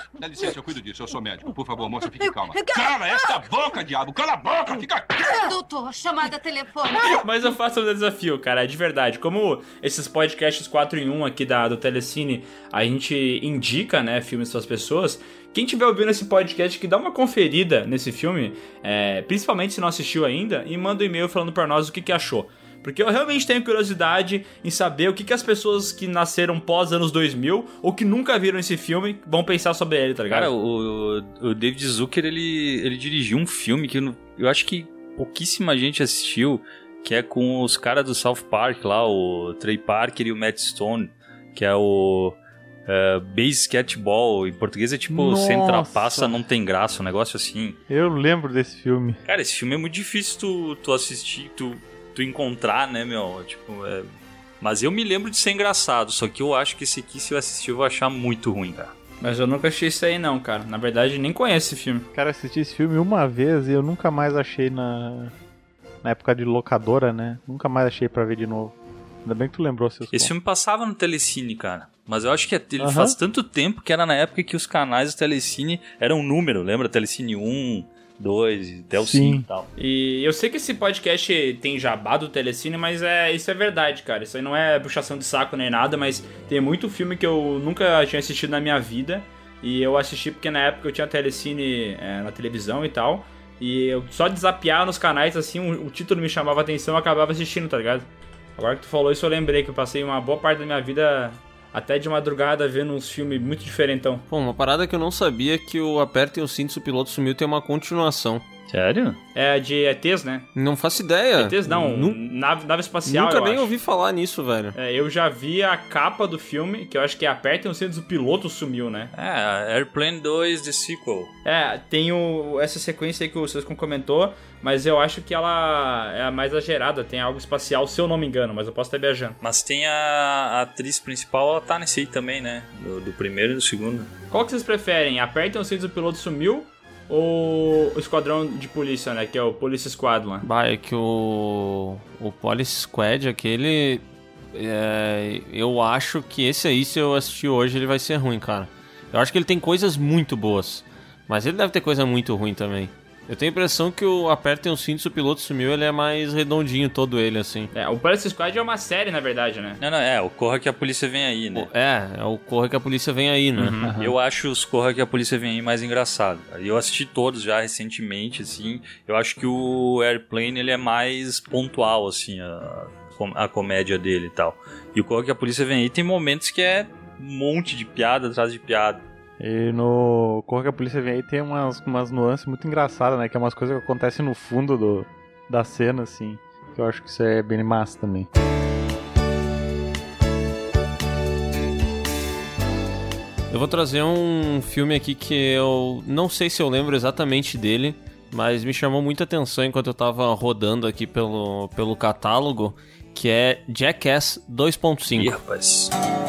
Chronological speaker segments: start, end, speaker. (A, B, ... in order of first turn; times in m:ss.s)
0:00.2-0:05.4 A
0:02.1-0:03.3 B
0:05.2-0:07.2 B
0:07.0-0:30.5 C
0:30.3-0:47.8 D
0:45.1-0:46.4 E
0:47.9-0:49.2 E
0:49.2-0:54.1 D
0:54.6-0:58.9 D
0:59.2-1:02.1 C
1:02.1-1:05.3 E
1:06.0-1:10.3 E
1:10.1-1:19.7 D
1:12.8-1:13.2 E
1:19.0-1:19.4 E
1:19.8-1:44.2 C
1:44.3-1:48.4 F
1:48.7-1:49.2 D
1:49.4-1:50.5 C
1:50.6-1:52.2 F
1:51.4-1:53.7 C
1:53.0-1:54.8 F
1:54.8-1:59.1 C
1:59.1-2:01.3 D
2:01.4-2:09.4 C
2:09.4-2:14.1 D
2:14.3-2:20.5 C
2:20.4-2:37.7 F
2:37.7-2:39.8 C
2:39.8-2:41.7 D
2:41.5-2:43.8 F
2:43.6-2:43.9 C
2:43.8-2:44.2 E
2:44.0-2:59.0 D
2:59.4-3:08.3 E
3:13.5-3:25.3 F
3:25.2-3:25.9 D